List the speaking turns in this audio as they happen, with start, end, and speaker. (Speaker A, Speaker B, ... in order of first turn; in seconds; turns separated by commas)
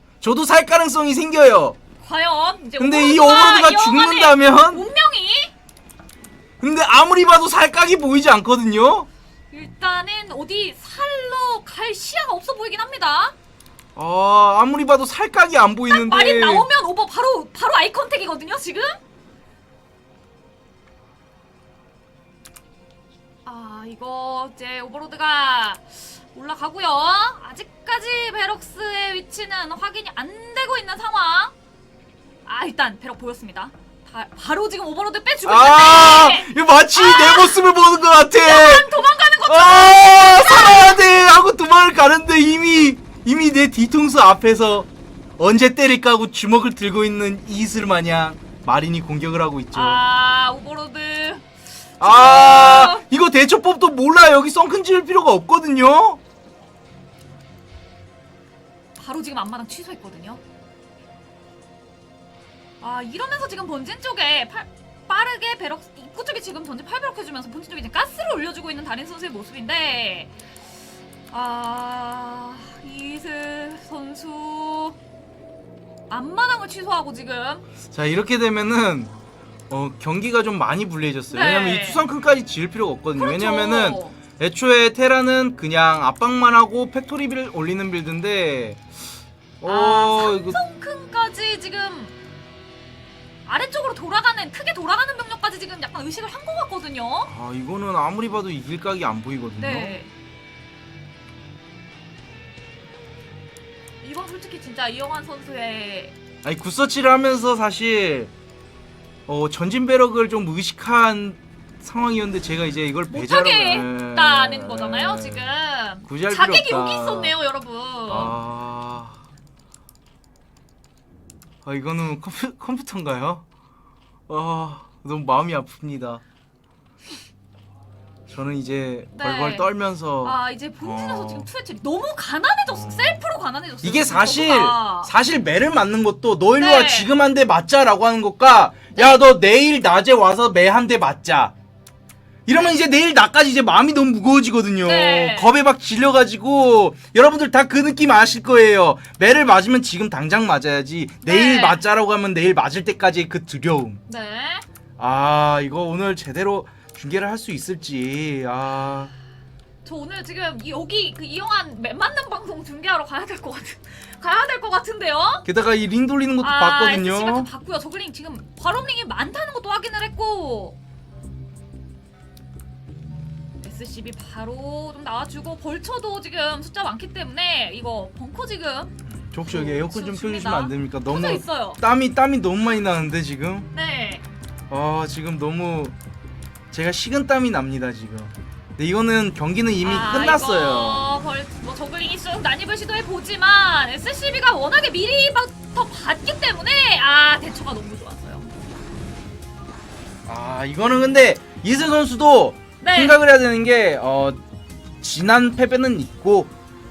Speaker A: 0.2-1.8, Speaker B: 2.0-5.5, Speaker A: 2.8-4.9, Speaker A: 6.6-9.1, Speaker B: 9.5-13.3, Speaker A: 13.9-16.7, Speaker B: 15.9-19.0, Speaker B: 23.5-31.5, Speaker B: 32.5-37.7, Speaker A: 35.5-38.9, Speaker B: 38.3-41.0, Speaker A: 39.5-50.0, Speaker B: 49.7-51.5, Speaker B: 52.0-53.0, Speaker A: 52.0-56.2, Speaker B: 59.0-60.4, Speaker B: 62.8-70.3, Speaker B: 71.3-75.0, Speaker B: 76.1-77.7, Speaker A: 77.9-79.1, Speaker A: 79.7-88.9, Speaker B: 81.3-82.0, Speaker B: 83.2-84.2, Speaker A: 89.6-90.6, Speaker B: 89.6-92.1, Speaker B: 93.5-97.3, Speaker A: 97.3-100.0, Speaker B: 99.6-100.1, Speaker B: 104.0-106.2, Speaker A: 106.4-108.3, Speaker A: 109.3-115.5, Speaker B: 113.1-118.4, Speaker A: 116.1-117.4, Speaker A: 118.1-119.2, Speaker A: 121.6-123.4, Speaker A: 124.3-126.2, Speaker A: 128.3-131.5, Speaker B: 129.2-129.7, Speaker B: 130.2-135.1, Speaker A: 132.7-133.2, Speaker A: 133.8-141.5, Speaker B: 136.6-137.1, Speaker B: 138.9-139.2, Speaker A: 142.5-154.0, Speaker B: 144.8-145.5, Speaker B: 151.2-151.8, Speaker B: 154.1-154.7, Speaker A: 155.0-159.1, Speaker B: 159.8-165.5, Speaker A: 165.4-167.5, Speaker B: 166.4-170.8, Speaker B: 173.6-178.9, Speaker A: 179.1-183.7, Speaker B: 179.5-181.8, Speaker B: 183.7-184.2, Speaker A: 184.7-185.9, Speaker A: 186.7-191.1, Speaker B: 189.8-198.5, Speaker A: 200.3-204.4, Speaker B: 202.8-203.2, Speaker A: 205.0-206.5